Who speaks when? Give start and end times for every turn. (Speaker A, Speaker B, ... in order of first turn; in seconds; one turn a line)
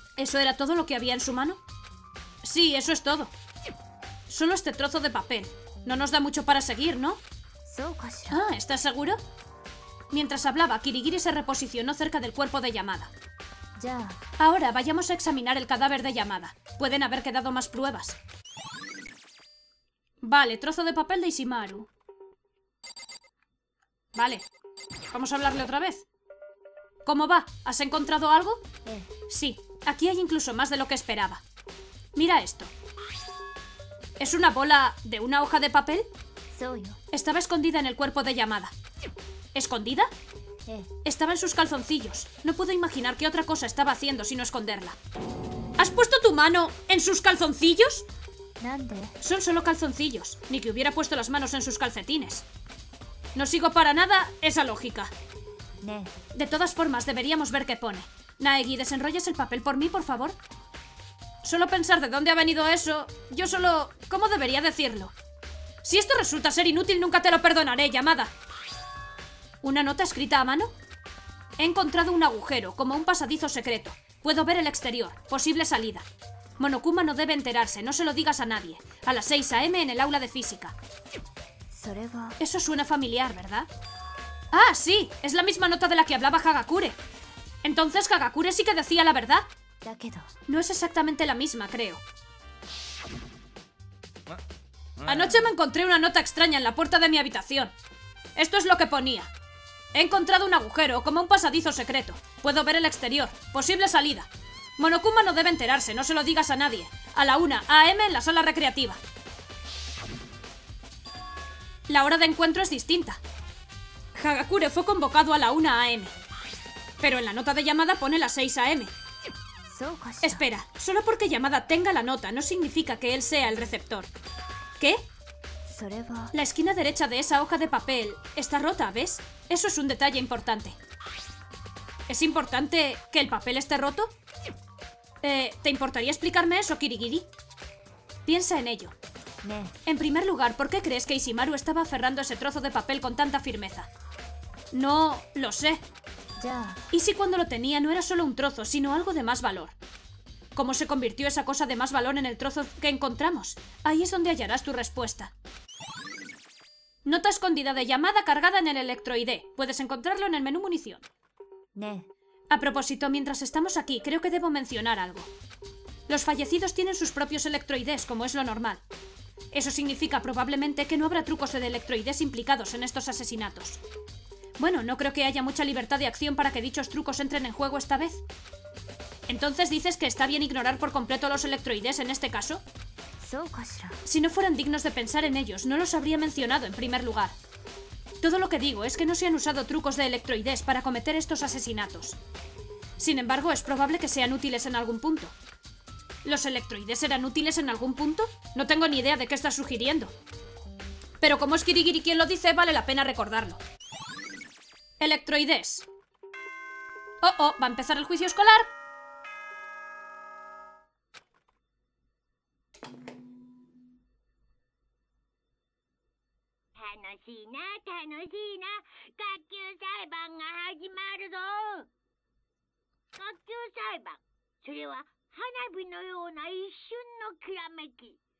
Speaker A: 0.2-1.6
Speaker A: 2.4-3.3
Speaker A: 4.3-7.2
Speaker B: 7.7-8.4
Speaker A: 8.3-9.2
Speaker A: 10.1-13.1
Speaker B: 13.8-14.2
Speaker A: 14.4-18.2
Speaker A: 20.2-21.9
Speaker A: 24.1-24.5
Speaker A: 25.1-26.1
Speaker A: 27.0-28.6
Speaker A: 29.3-31.4
Speaker A: 32.1-32.7
Speaker A: 34.2-36.1
Speaker B: 36.5-37.0
Speaker A: 37.1-38.7
Speaker A: 39.5-40.1
Speaker A: 41.0-45.0
Speaker A: 45.8-48.0
Speaker B: 48.6-49.1
Speaker A: 49.2-52.5
Speaker A: 53.3-55.1
Speaker B: 55.8-56.1
Speaker A: 56.3-60.4
Speaker A: 61.4-65.1
Speaker A: 65.8-68.3
Speaker A: 69.6-70.7
Speaker A: 71.6-76.1
Speaker A: 76.6-80.8
Speaker B: 81.7-82.3
Speaker A: 82.4-83.7
Speaker A: 84.5-87.0
Speaker A: 87.6-89.5
Speaker B: 89.8-90.3
Speaker A: 90.5-92.0
Speaker A: 95.0-97.7
Speaker A: 98.3-99.3
Speaker A: 99.9-109.0
Speaker A: 111.9-113.2
Speaker A: 114.1-116.1
Speaker A: 117.0-118.9
Speaker B: 119.7-120.4
Speaker A: 120.2-124.1
Speaker A: 124.8-125.0
Speaker B: 125.7-126.3
Speaker A: 126.3-130.8
Speaker A: 132.1-134.1
Speaker A: 135.2-137.3
Speaker A: 138.2-138.9
Speaker B: 139.4-139.7
Speaker A: 139.8-143.9
Speaker A: 144.7-145.8
Speaker B: 146.4-146.8
Speaker A: 146.9-149.8
Speaker A: 150.5-155.3
Speaker A: 157.0-161.0
Speaker B: 161.8-162.1
Speaker A: 162.5-165.3
Speaker A: 166.1-168.8
Speaker A: 169.5-173.8
Speaker A: 174.6-178.2
Speaker A: 179.3-182.6
Speaker B: 183.2-184.0
Speaker A: 184.0-187.3
Speaker A: 188.2-192.2
Speaker A: 193.0-195.3
Speaker A: 196.2-200.1
Speaker A: 201.2-203.6
Speaker A: 205.0-205.9
Speaker A: 207.2-208.7
Speaker C: 216.8-221.9
Speaker C: 223.2-228.2